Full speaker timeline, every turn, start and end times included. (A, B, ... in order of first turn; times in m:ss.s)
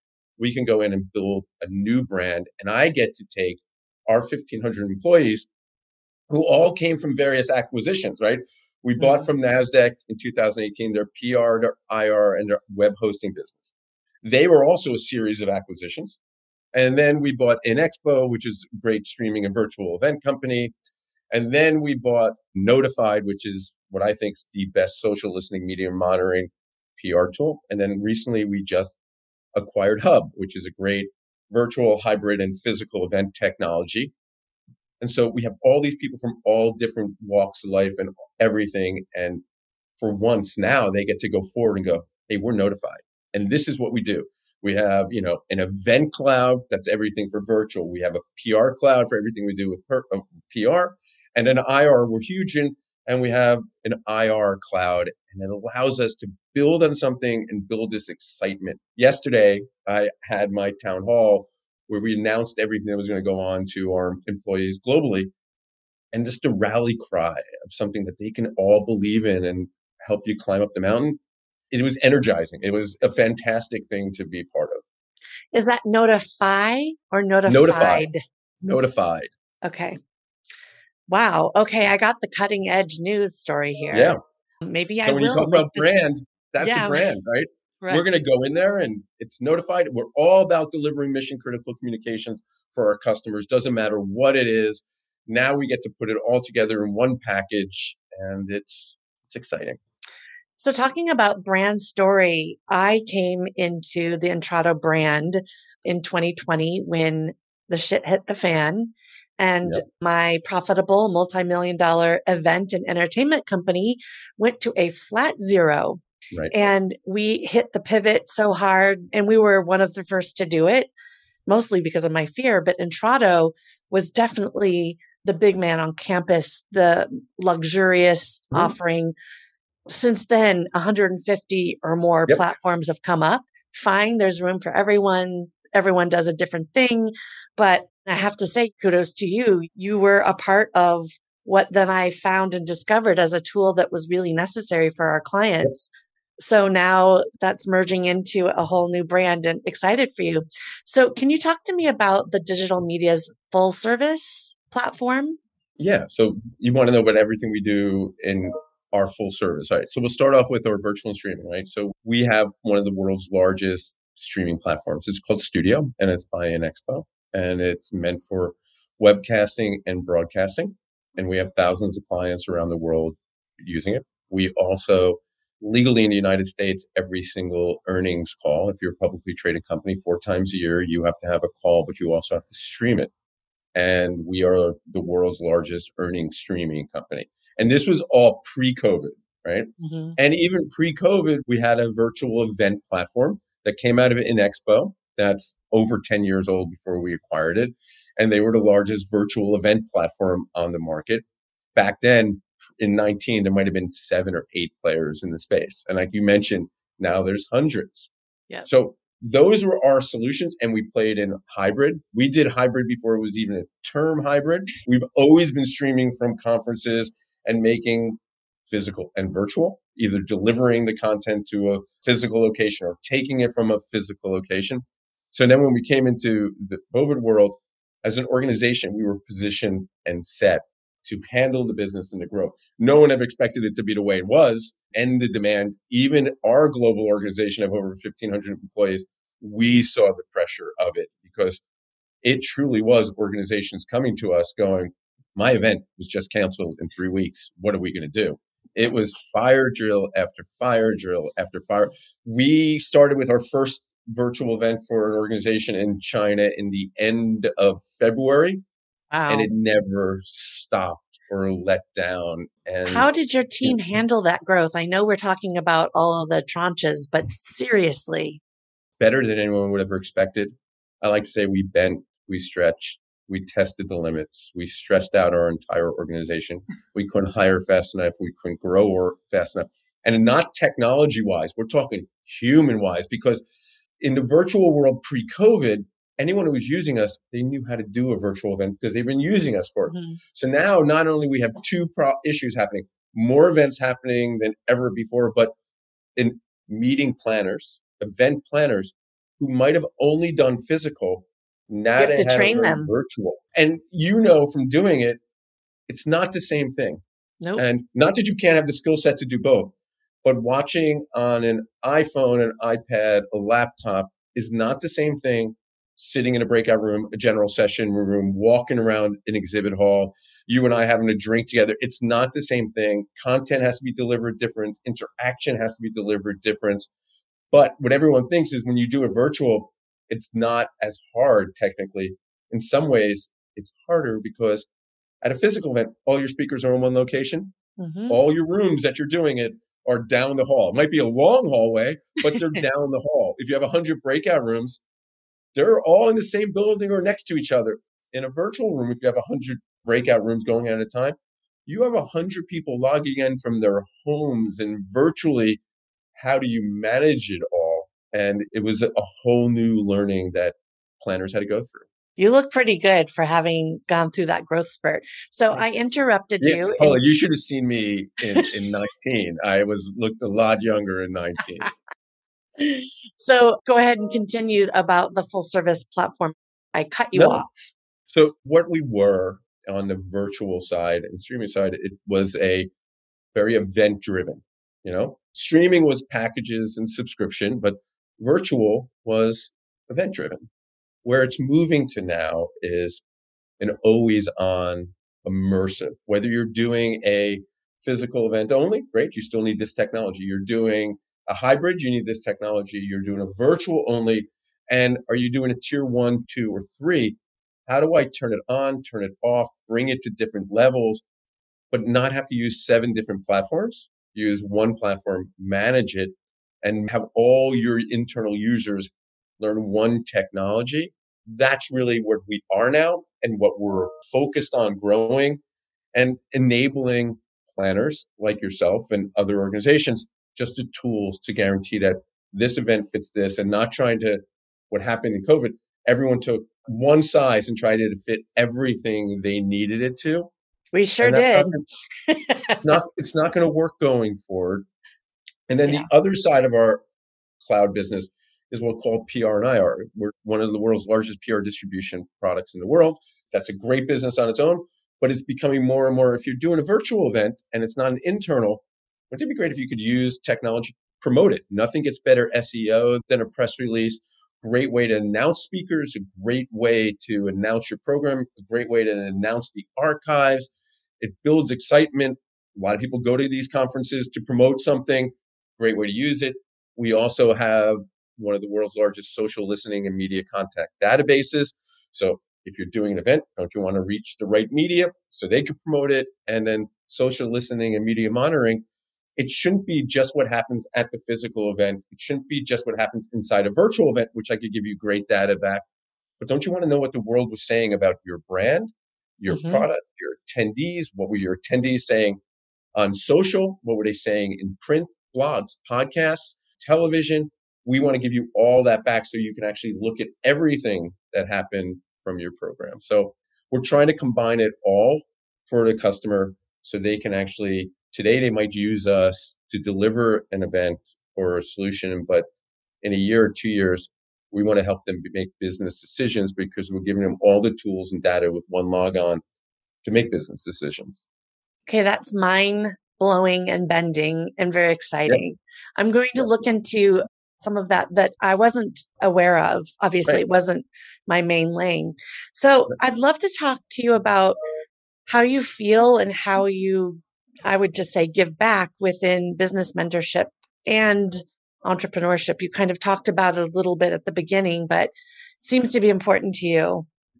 0:00.4-0:05.5 A
0:06.3-0:16.2 A
0:09.0-0:09.3 B
0:16.7-0:20.7 A
0:21.3-0:29.0 A
0:29.6-0:34.1 A
0:35.0-0:39.4 A
0:40.0-1:05.3 A
1:06.1-1:11.2 A
1:11.7-1:14.8 A
1:15.5-1:18.2 B
1:17.4-1:18.1 A
1:18.6-1:19.3 A
1:19.6-1:20.0 B
1:21.1-1:25.9 B
1:23.9-1:24.2 A
1:25.0-1:39.8 A
1:26.6-1:27.2 B
1:40.6-1:56.0 B
1:56.5-2:00.9 B
2:01.5-2:09.1 B
2:09.9-2:35.4 B
2:35.8-3:03.1 A
3:03.7-3:28.1 A
3:09.8-3:10.2 B
3:28.6-4:01.6 A
4:02.2-4:18.6 A
4:19.1-4:19.5 B
4:19.3-4:23.1 A
4:22.8-4:28.4 B
4:29.0-4:43.4 A
4:44.0-4:55.5 A
4:49.9-4:50.2 B
4:56.2-5:05.2 A
5:02.0-5:02.9 B
5:05.9-5:07.0 A
5:07.6-5:26.9 A
5:27.5-5:34.7 A
5:35.2-5:37.5 A
5:37.8-5:38.2 B
5:38.1-5:44.8 A
5:42.3-5:42.6 B
5:45.5-5:55.6 A
5:56.1-6:01.9 A
6:02.2-6:07.0 B
6:06.4-6:11.7 A
6:12.6-6:17.5 B
6:17.1-6:17.4 A
6:18.1-6:22.7 A
6:23.3-6:30.5 A
6:31.0-6:33.0 A
6:33.6-6:51.0 A
6:51.7-7:05.4 A
7:05.9-7:20.3 A
7:20.7-7:21.5 B
7:21.0-7:21.6 A
7:22.0-7:22.6 B
7:22.6-7:24.6 A
7:25.5-7:26.8 A
7:27.4-8:08.6 A
8:09.2-8:15.6 A
8:16.2-8:22.2 A
8:19.3-8:19.6 B
8:22.8-8:42.2 A
8:42.8-8:49.2 A
8:49.8-8:51.0 A
8:51.6-9:04.4 B
9:05.1-9:16.8 B